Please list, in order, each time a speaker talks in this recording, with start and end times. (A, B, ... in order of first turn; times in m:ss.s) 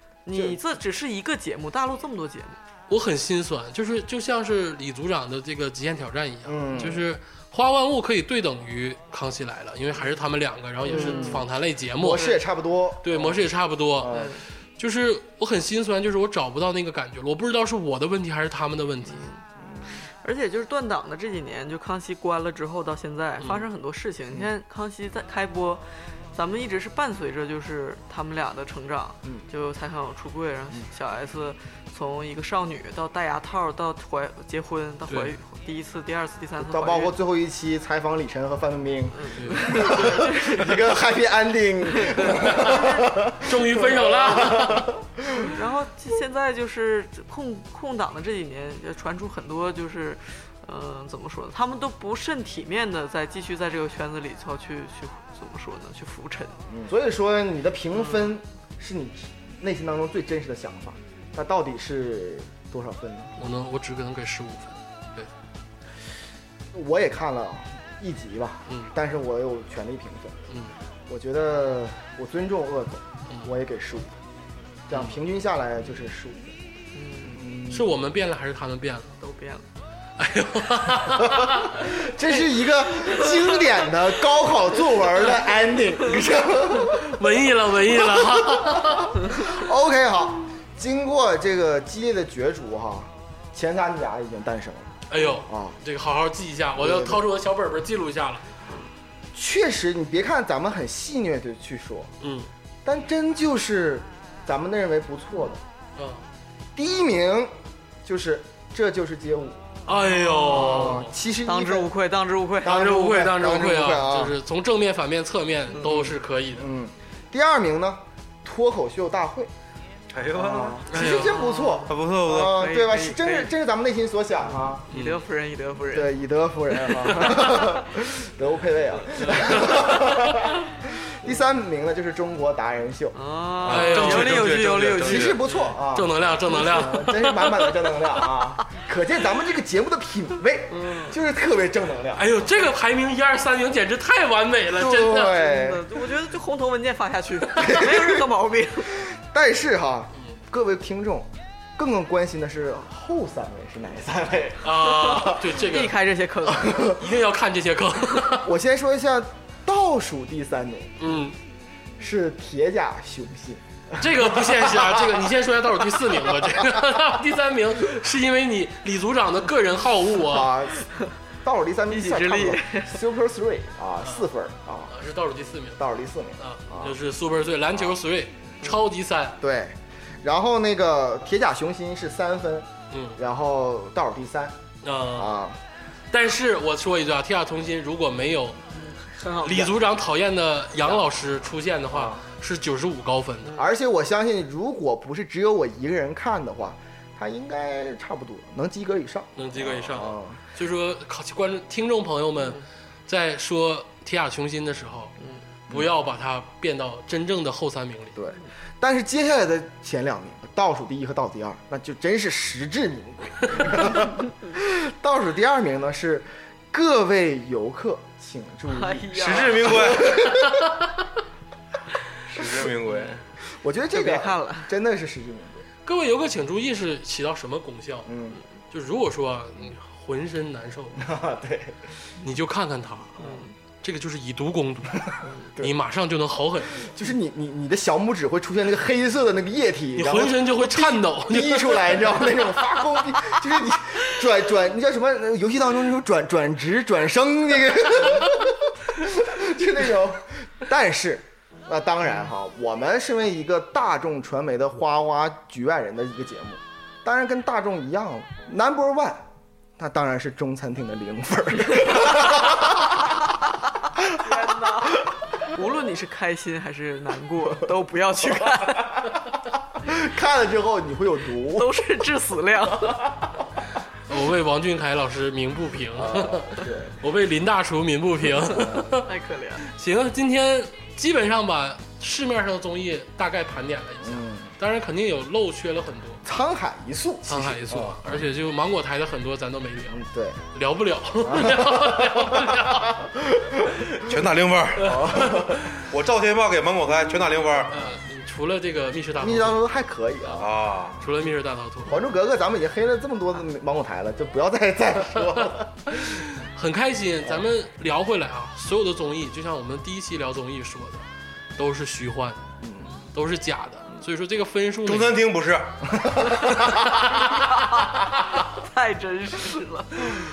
0:00.2-0:02.6 A
0:00.3-0:00.6 B
0:02.9-0:12.4 C
0:06.4-0:07.0 B
0:10.8-0:11.4 A
0:10.9-0:11.4 B
0:12.0-0:13.4 B
0:13.0-0:14.1 C
0:14.0-0:14.4 B
0:14.1-0:14.4 A
0:14.8-0:19.2 C
0:19.1-0:37.1 A
0:19.6-0:20.0 B
0:36.6-0:45.5 B
0:39.1-0:41.0 A
0:39.4-0:39.7 C
0:42.0-0:43.3 A
0:42.4-0:42.7 C
0:43.4-0:44.9 C
0:45.4-0:56.7 A
0:56.7-1:03.4 B
0:58.0-0:58.3 A
1:03.4-1:05.3 C
1:06.7-1:10.4 B
1:08.7-1:08.9 C
1:11.1-1:14.2 B
1:14.9-1:16.6 B
1:16.9-1:17.4 A
1:17.3-1:17.9 B
1:17.7-1:19.1 C
1:19.2-1:19.6 A
1:20.2-1:22.0 C
1:21.2-1:27.2 B
1:23.0-1:23.8 A
1:26.7-1:29.4 C
1:27.8-1:35.8 B
1:35.1-1:38.4 C
1:36.8-1:37.2 B
1:39.3-1:42.1 B
1:42.2-1:42.5 C
1:42.8-1:45.6 B
1:46.0-1:46.2 C
1:46.7-1:47.5 B
1:48.0-1:51.9 B
1:49.8-1:51.1 C
1:50.4-1:50.9 A
1:51.4-1:52.9 A
1:52.6-1:54.4 B
1:52.6-1:56.6 C
1:55.8-1:59.5 B
2:00.1-2:00.8 D
2:00.3-2:04.8 B
2:00.9-2:01.4 C
2:01.0-2:03.5 A
2:01.9-2:02.6 D
2:04.7-2:06.1 A
2:04.9-2:05.2 C
2:05.9-2:13.2 B
2:13.1-2:15.4 A
2:13.6-2:15.4 D
2:13.7-2:14.6 C
2:15.0-2:22.3 B
2:15.4-2:17.7 C
2:20.7-2:21.2 A
2:22.1-2:25.4 C
2:24.7-2:25.9 B
2:25.1-2:29.0 A
2:27.6-2:28.2 B
2:29.0-2:35.4 B
2:34.6-2:35.9 C
2:34.8-2:36.9 A
2:36.6-2:36.9 B
2:36.7-2:38.5 C
2:38.3-2:41.0 B
2:41.0-2:41.3 C
2:42.0-2:45.1 B
2:44.0-2:50.5 C
2:50.2-2:50.8 B
2:51.4-2:54.9 B
2:51.9-2:53.0 A
2:54.9-2:55.8 C
2:55.8-2:57.0 B
2:56.4-2:59.4 C
2:59.4-3:04.6 B
3:02.9-3:03.2 C
3:04.8-3:05.4 C
3:05.1-3:05.6 B
3:06.1-3:08.6 C
3:08.8-3:09.7 A
3:09.4-3:13.6 C
3:10.8-3:11.1 B
3:11.9-3:12.2 B
3:13.6-3:20.4 B
3:19.4-3:25.1 C
3:25.7-3:28.2 C
3:28.1-3:40.6 B
3:38.7-3:39.8 A
3:39.1-3:40.3 D
3:39.9-3:41.1 C
3:42.3-3:43.2 D
3:43.5-3:45.6 B
3:43.9-3:44.7 A
3:45.8-3:48.1 C
3:48.0-3:48.4 B
3:48.7-3:51.1 C
3:51.0-3:51.8 B
3:52.2-3:53.2 C
3:53.2-3:53.5 A
3:53.8-3:56.9 C
3:56.8-4:19.3 B
3:59.9-4:02.4 C
4:19.8-4:23.2 B
4:24.0-4:24.3 B
4:24.1-4:29.1 A
4:28.8-4:29.2 B
4:29.8-4:31.9 B
4:31.5-4:33.1 A
4:32.7-4:33.2 B
4:34.1-4:39.1 C
4:35.9-4:37.0 B
4:38.4-4:39.0 B
4:39.0-4:39.6 A
4:39.6-4:46.2 C
4:44.0-4:44.5 B
4:46.2-4:48.1 B
4:47.2-4:50.0 C
4:49.9-4:50.4 B
4:50.5-4:53.1 C
4:51.2-4:54.2 B
4:54.0-4:57.8 D
4:54.8-4:55.7 B
4:54.9-4:55.7 C
4:57.7-4:59.6 C
4:59.2-5:00.5 B
5:00.3-5:01.0 D
5:01.0-5:02.0 C
5:01.8-5:06.2 B
5:05.2-5:11.0 C
5:11.6-5:12.4 C
5:12.6-5:12.9 B
5:13.1-5:15.2 C
5:14.8-5:15.8 D
5:15.9-5:16.8 B
5:16.3-5:18.4 C
5:17.3-5:20.2 A